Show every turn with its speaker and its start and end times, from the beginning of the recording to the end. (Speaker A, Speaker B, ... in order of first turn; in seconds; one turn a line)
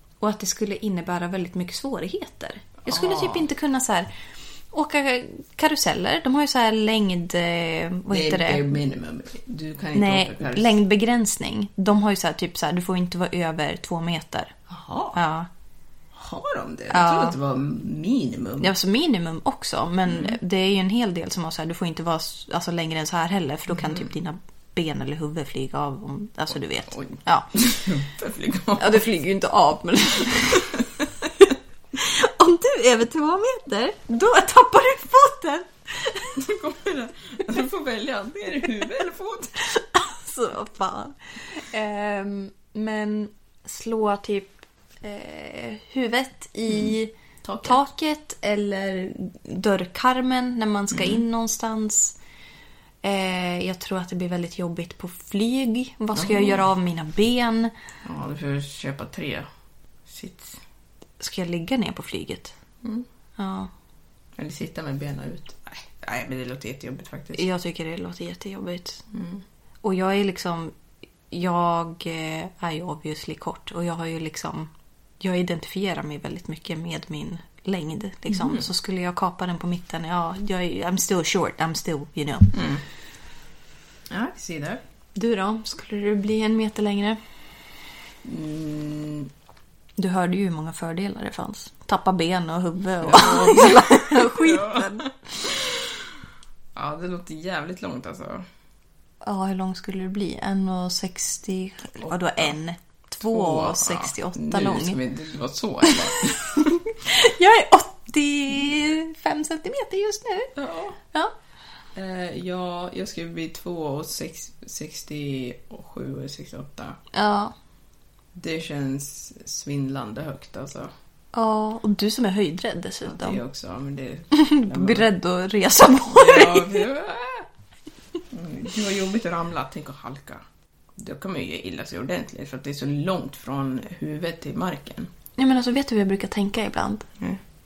Speaker A: 0.2-4.1
Speaker B: 2.8-3.5
Speaker A: 4.7-8.8
Speaker B: 8.1-10.8
Speaker A: 9.9-14.6
Speaker B: 14.7-15.2
Speaker A: 15.1-15.5
Speaker B: 16.1-18.7
Speaker A: 16.9-17.4
Speaker A: 18.6-27.5
Speaker B: 20.1-20.4
Speaker B: 23.7-24.1
Speaker B: 26.5-29.0
Speaker A: 28.8-30.8
Speaker A: 31.9-36.3
Speaker B: 36.4-39.5
Speaker A: 39.7-47.1
Speaker B: 46.7-47.9
Speaker A: 47.6-52.1
Speaker B: 50.9-51.2
Speaker A: 53.0-57.7
Speaker B: 56.1-56.6
Speaker B: 58.0-59.5
Speaker B: 60.1-60.6
Speaker A: 61.2-62.5
Speaker A: 63.4-63.7
Speaker B: 64.4-67.5
Speaker A: 67.3-69.0
Speaker B: 69.1-69.4
Speaker A: 69.8-70.7
Speaker A: 71.3-82.5
Speaker B: 78.3-78.7
Speaker B: 82.5-82.8
Speaker B: 84.1-84.8
Speaker A: 85.1-87.2
Speaker B: 88.2-89.3
Speaker A: 90.0-95.1
Speaker B: 93.0-95.9
Speaker B: 96.7-98.5
Speaker A: 99.2-105.0
Speaker B: 102.0-102.5
Speaker B: 103.2-106.7
Speaker A: 106.5-110.5
Speaker B: 110.5-111.0
Speaker B: 111.9-117.0
Speaker A: 117.1-117.5
Speaker B: 118.3-120.9
Speaker A: 121.3-123.4
Speaker B: 123.0-125.1
Speaker A: 124.3-126.9
Speaker B: 126.0-127.5
Speaker B: 128.3-130.4
Speaker B: 130.9-135.1
Speaker A: 135.4-137.1